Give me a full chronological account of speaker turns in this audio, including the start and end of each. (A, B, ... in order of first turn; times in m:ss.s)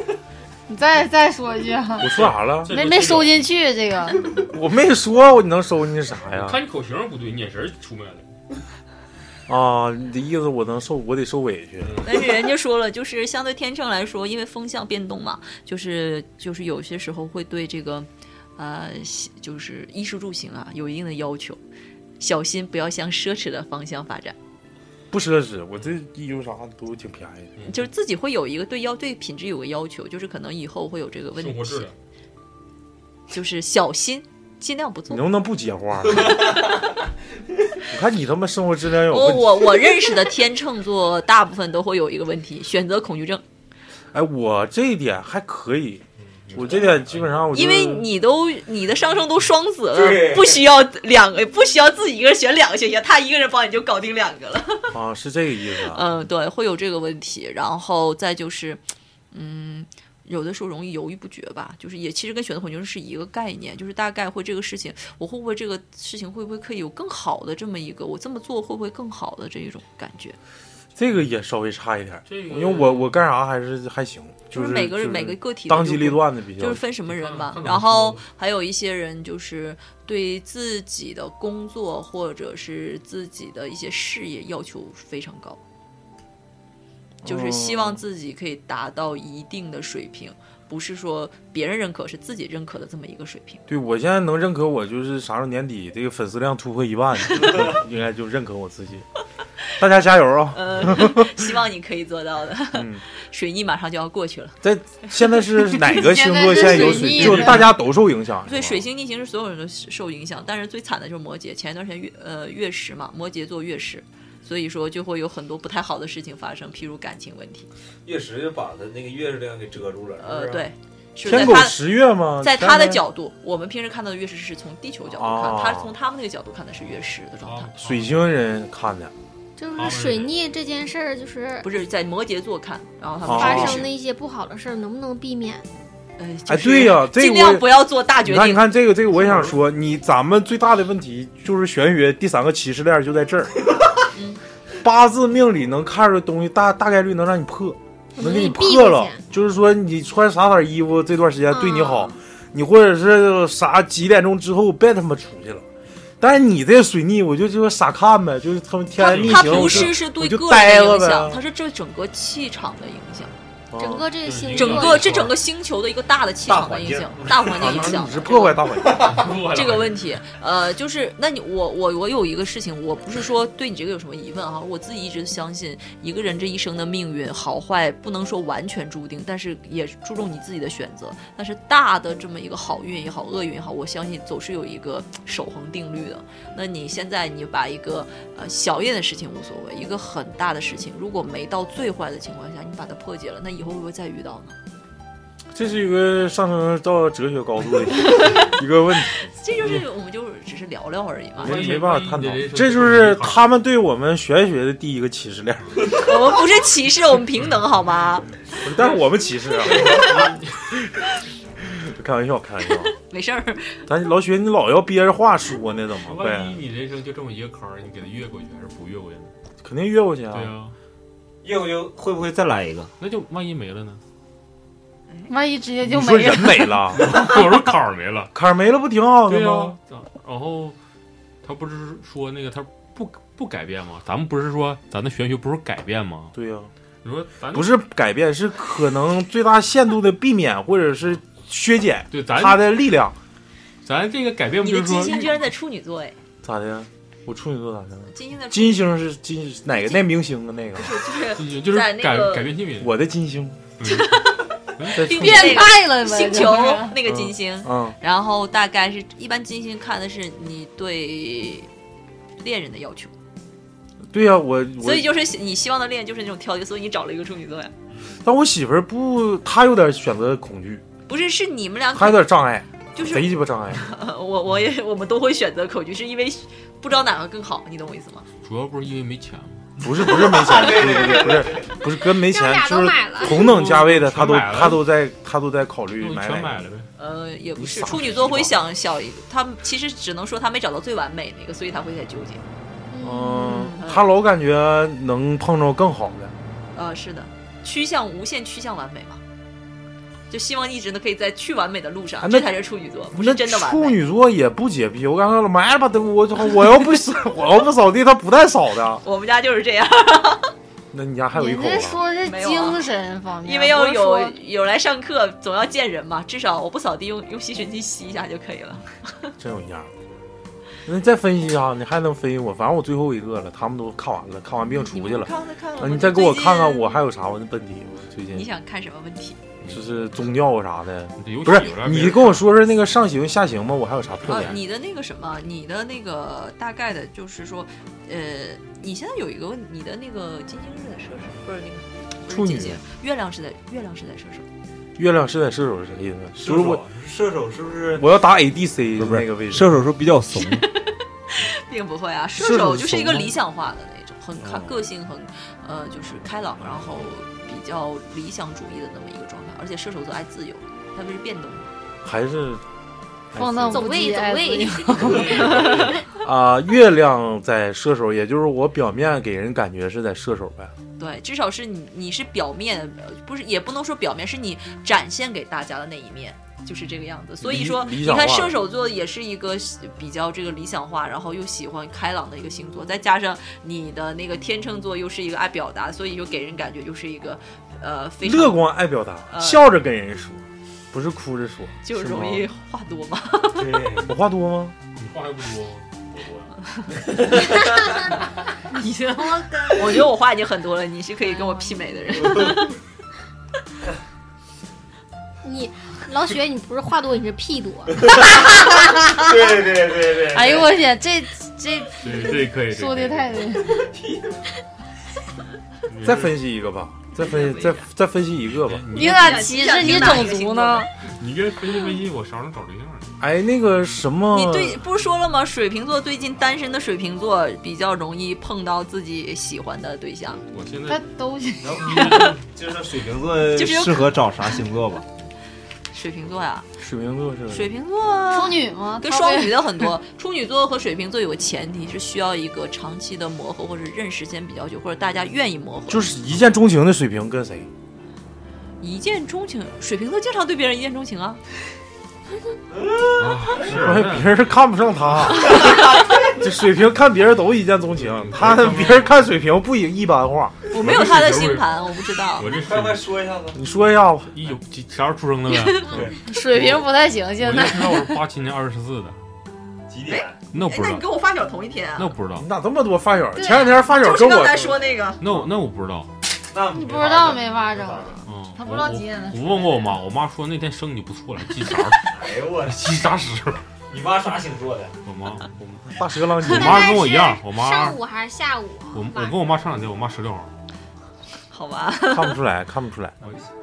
0:00.7-0:02.1 A
0:02.0-0:02.8 B
0:02.2-0:03.4 C
0:02.7-0:04.3 A
0:04.5-0:06.6 B
0:06.3-0:08.3 C
0:09.5-0:12.0 B
0:11.8-0:12.1 C
0:12.0-0:21.6 D
0:22.2-0:24.4 D
0:25.1-0:27.5 B
0:27.7-0:31.9 D
0:31.3-0:32.0 C
0:33.3-0:35.3 D
0:35.1-0:36.5 B
0:37.9-0:39.7 B
0:39.1-0:43.4 D
0:44.1-0:48.1 B
0:46.4-0:47.4 C
0:47.5-0:54.9 D
0:49.9-0:50.6 E
0:54.9-0:56.0 B
0:55.9-1:10.4 D
1:11.0-1:16.8 B
1:12.3-1:13.2 C
1:14.5-1:25.6 D
1:17.0-1:18.2 C
1:27.2-1:28.0 B
1:27.2-1:33.6 D
1:33.7-1:39.0 B
1:39.8-1:41.3 B
1:40.5-1:44.6 D
1:42.7-1:43.0 B
1:44.6-1:48.7 B
1:45.9-1:47.7 A
1:46.9-1:47.4 D
1:48.4-1:57.7 D
1:58.0-2:00.7 E
2:00.2-2:01.9 D
2:01.2-2:03.0 B
2:02.4-2:07.7 D
2:05.1-2:05.9 B
2:07.4-2:08.1 C
2:07.8-2:09.1 B
2:09.6-2:11.7 F
2:09.7-2:10.3 C
2:11.6-2:13.9 D
2:13.2-2:13.9 B
2:13.3-2:15.7 F
2:16.2-2:18.7 D
2:16.5-2:23.6 B
2:24.1-2:24.4 D
2:24.8-2:35.6 B
2:28.2-2:29.2 F
2:31.5-2:32.1 F
2:36.2-2:41.4 B
2:39.0-2:43.3 D
2:39.0-2:39.9 C
2:43.7-2:44.1 B
2:43.8-2:45.3 F
2:44.2-2:45.4 C
2:44.5-2:48.8 D
2:46.5-2:47.9 E
2:47.5-2:49.2 B
2:49.0-2:50.0 C
2:49.4-3:14.6 D
3:15.5-3:19.8 B
3:19.4-3:21.7 D
3:21.4-3:23.5 C
3:21.4-3:26.0 B
3:25.9-3:28.3 D
3:28.6-3:30.0 B
3:29.7-3:30.4 C
3:31.7-3:32.9 B
3:32.9-3:33.8 D
3:33.9-3:36.6 B
3:36.0-3:39.3 C
3:39.6-3:40.6 B
3:40.3-3:40.7 C
3:41.4-3:42.9 E
3:43.0-3:44.0 C
3:45.3-3:46.8 A
3:45.8-3:47.3 B
3:46.9-3:48.3 C
3:48.3-3:49.8 B
3:49.3-3:50.8 C
3:51.4-3:56.3 C
3:56.3-3:56.7 B
3:57.0-3:57.7 C
3:57.5-4:03.2 B
4:02.1-4:02.7 C
4:03.8-4:05.3 C
4:04.6-4:06.2 D
4:06.4-4:11.0 B
4:08.1-4:08.9 D
4:09.7-4:10.0 D
4:10.7-4:12.6 D
4:11.3-4:12.9 C
4:12.8-4:13.6 B
4:13.8-4:14.2 C
4:13.8-4:21.7 D
4:14.8-4:15.3 C
4:14.9-4:15.7 B
4:15.1-4:17.0 A
4:17.0-4:18.0 B
4:22.4-4:23.1 D
4:24.1-4:25.1 B
4:24.8-4:27.7 D
4:28.2-4:30.8 B
4:31.1-4:32.3 D
4:31.9-4:33.9 B
4:33.0-4:38.3 D
4:38.4-4:39.7 C
4:39.8-4:46.7 B
4:42.1-4:43.5 F
4:43.2-4:44.8 C
4:46.0-4:46.9 C
4:47.0-4:52.4 D
4:47.6-4:48.5 B
4:52.9-4:53.7 F
4:53.0-4:56.3 B
4:53.7-4:54.0 D
4:56.7-4:59.2 D
5:00.3-5:04.0 D
5:02.2-5:02.5 B
5:03.1-5:09.0 B
5:09.0-5:10.5 D
5:10.9-5:12.0 B
5:11.3-5:14.4 A
5:12.2-5:12.9 D
5:13.4-5:19.3 D
5:19.4-5:19.9 B
5:20.9-5:28.5 B
5:24.7-5:27.0 D
5:28.3-5:29.4 D
5:29.6-5:34.6 B
5:31.2-5:32.5 C
5:34.3-5:44.4 D
5:42.3-5:42.8 B
5:45.0-5:46.8 B
5:46.4-5:48.0 E
5:48.0-5:49.7 B
5:49.0-5:50.7 E
5:50.4-6:01.7 D
5:52.4-5:53.3 B
6:02.0-6:02.6 B
6:03.3-6:05.4 A
6:03.7-6:06.0 F
6:05.1-6:06.0 C
6:05.4-6:05.8 D
6:06.2-6:10.7 B
6:11.0-6:28.7 D
6:17.4-6:18.6 B
6:28.2-6:32.5 B
6:29.3-6:29.6 D
6:31.8-6:33.8 D
6:33.6-6:34.1 E
6:34.0-6:34.8 B
6:35.0-6:36.5 C
6:37.4-6:38.1 F
6:38.7-6:39.8 A
6:39.7-6:42.8 D
6:45.4-6:48.2 F
6:49.2-6:50.7 E
6:50.3-6:53.8 A
6:52.0-6:53.4 C
6:53.8-6:54.4 E
6:55.9-6:56.4 C
6:56.0-6:58.9 B
6:57.2-6:57.7 D
6:58.5-7:00.3 C
6:58.9-7:00.9 A
6:58.9-7:00.9 D
7:01.1-7:03.2 C
7:03.2-7:04.8 B
7:04.3-7:10.4 D
7:10.4-7:11.0 C
7:10.9-7:12.2 A
7:11.6-7:15.0 E
7:11.9-7:12.3 C
7:12.0-7:12.3 D
7:13.6-7:14.1 D
7:15.9-7:16.7 D
7:16.8-7:17.7 B
7:17.5-7:26.1 D
7:18.3-7:19.9 A
7:25.9-7:27.7 B
7:28.8-7:31.4 D
7:32.7-7:33.7 E
7:33.2-7:34.6 C
7:33.6-7:35.8 B
7:36.3-7:40.6 B
7:38.0-7:39.2 C
7:40.7-7:42.5 D
7:40.7-7:41.7 C
7:42.4-7:43.0 C
7:42.4-7:43.6 E
7:43.6-7:44.4 B
7:44.3-7:46.1 C
7:45.5-7:46.0 D
7:46.2-7:48.2 A
7:47.4-7:49.2 C
7:49.9-7:50.4 E
7:50.1-7:52.1 D
7:50.5-7:51.0 C
7:52.0-7:52.5 C
7:52.4-7:54.8 B
7:53.4-7:55.2 D
7:55.2-7:56.1 C
7:56.5-7:58.2 E
7:56.7-8:00.0 A
7:58.3-8:02.1 C
8:02.1-8:02.9 E
8:02.7-8:03.6 C
8:03.9-8:05.0 E
8:05.0-8:08.0 C
8:06.0-8:07.0 B
8:06.4-8:09.6 F
8:08.9-8:10.5 C
8:11.5-8:12.4 D
8:12.1-8:13.2 B